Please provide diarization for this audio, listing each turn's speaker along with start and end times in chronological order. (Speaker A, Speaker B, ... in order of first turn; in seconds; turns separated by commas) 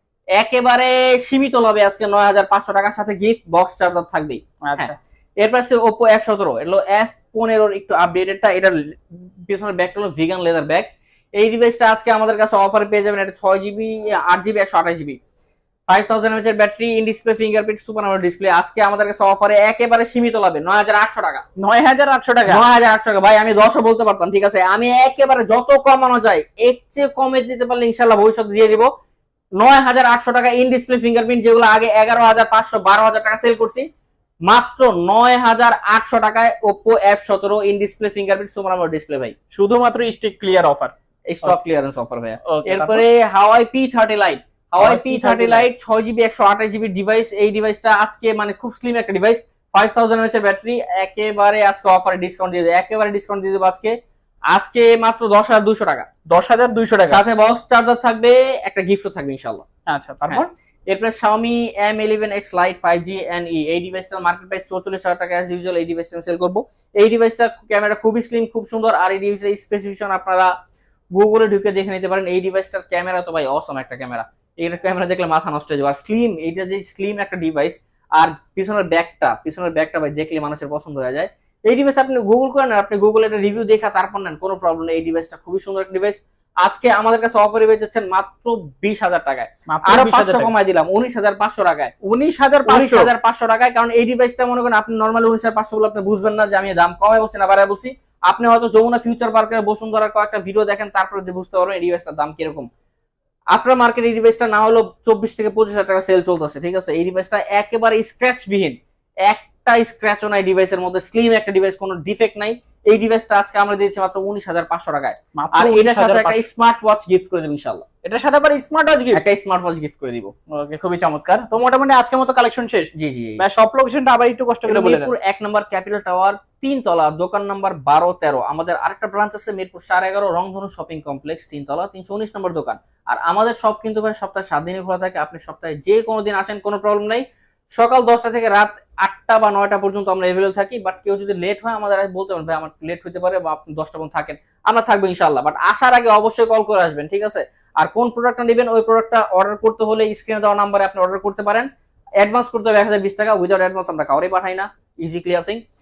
Speaker A: 0.3-15.2, Speaker B: 4.6-5.0, Speaker A: 15.9-21.4, Speaker B: 21.6-22.6, Speaker A: 22.5-28.9, Speaker A: 29.6-33.8, Speaker A: 34.5-39.3, Speaker B: 39.5-41.6, Speaker A: 41.3-53.9, Speaker B: 42.5-43.0, Speaker B: 44.8-45.6, Speaker A: 54.5-56.1, Speaker B: 56.3-57.2, Speaker A: 57.1-59.6, Speaker B: 59.9-60.5, Speaker A: 60.3-70.5, Speaker A: 71.1-91.9, Speaker B: 89.7-90.5, Speaker B: 92.0-93.1, Speaker A: 92.7-102.7, Speaker A: 103.5-117.8, Speaker B: 115.4-116.4, Speaker B: 118.0-119.2, Speaker A: 119.1-120.3, Speaker B: 120.5-125.1, Speaker A: 122.9-123.4, Speaker A: 124.7-137.2, Speaker A: 137.7-151.7, Speaker A: 152.2-155.6